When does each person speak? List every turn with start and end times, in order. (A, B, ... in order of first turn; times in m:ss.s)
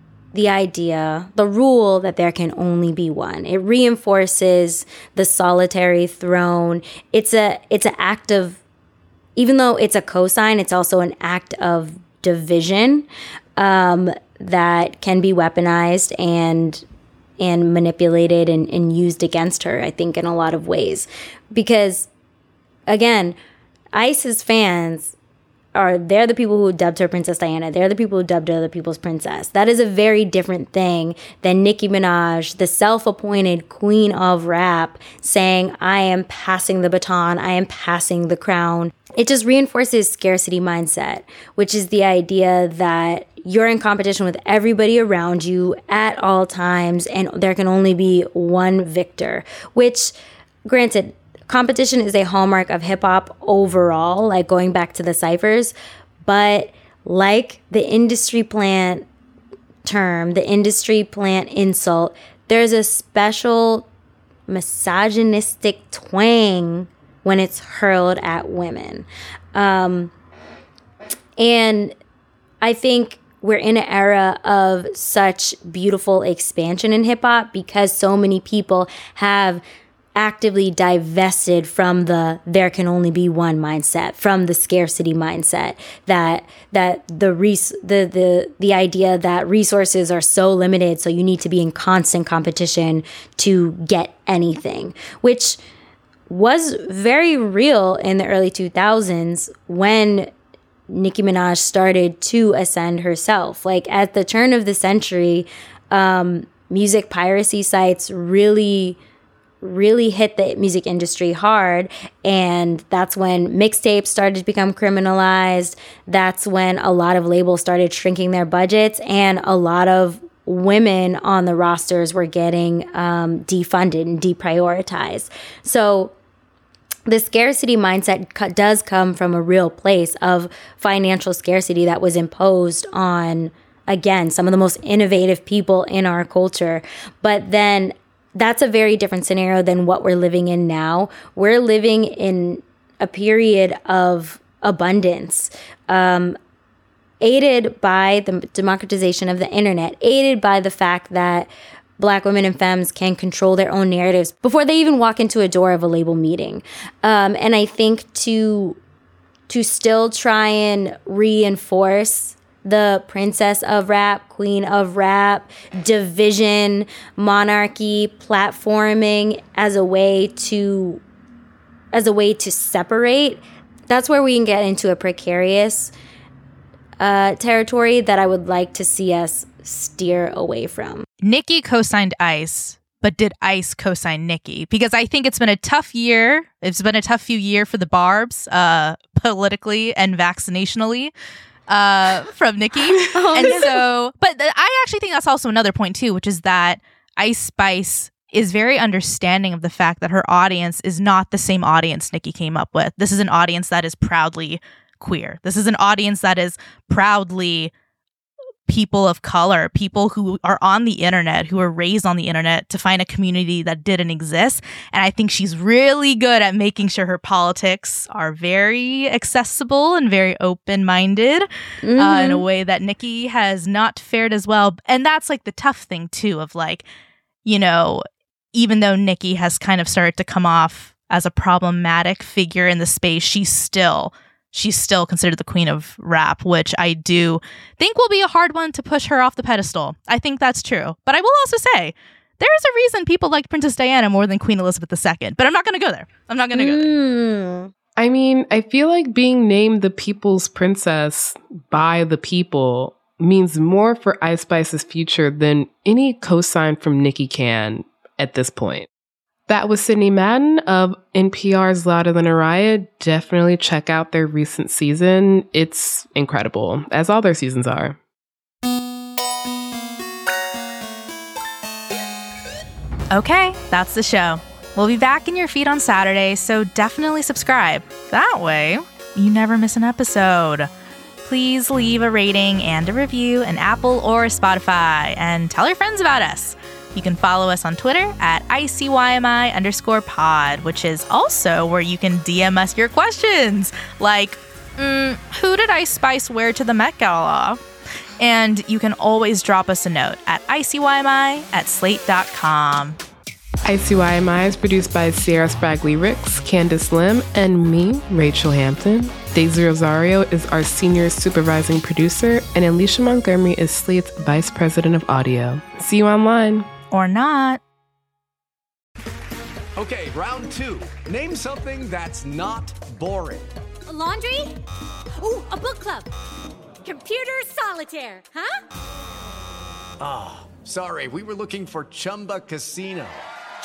0:00.3-0:08.6 A
0:09.4-0:16.8 A
0:17.4-0:22.1 A
0:22.9-0:23.4 A
0:23.9-0:25.1 A
0:25.8-0:50.1 A
0:50.7-0:55.7 A
0:56.2-0:59.1 A
0:59.8-1:03.9 A
1:04.5-1:10.1 A
1:11.4-1:12.0 A
1:12.6-1:19.6 A
1:20.2-1:35.6 A
1:36.3-1:40.3 A
1:40.9-1:49.0 A
1:49.6-2:06.1 A
2:07.1-2:26.4 A
2:27.2-2:38.8 A
2:39.5-2:51.0 A
2:51.9-2:55.9 A
2:57.0-3:01.1 A
3:01.2-3:11.1 B
3:11.7-3:27.7 B
3:13.1-3:13.9 A
3:28.7-3:46.8 B
3:41.8-3:42.4 A
3:47.4-3:48.0 B
3:48.5-4:06.9 B
4:06.5-4:07.7 A
4:08.0-4:18.9 C
4:19.5-4:28.0 C
4:33.1-4:40.7 B
4:41.2-4:57.6 B
4:58.2-5:03.0 B
5:03.6-5:16.7 C
5:16.9-5:17.6 B
5:19.8-5:23.5 D
5:23.9-5:24.6 E
5:25.2-5:26.1 E
5:26.8-5:28.5 E
5:30.0-5:33.2 D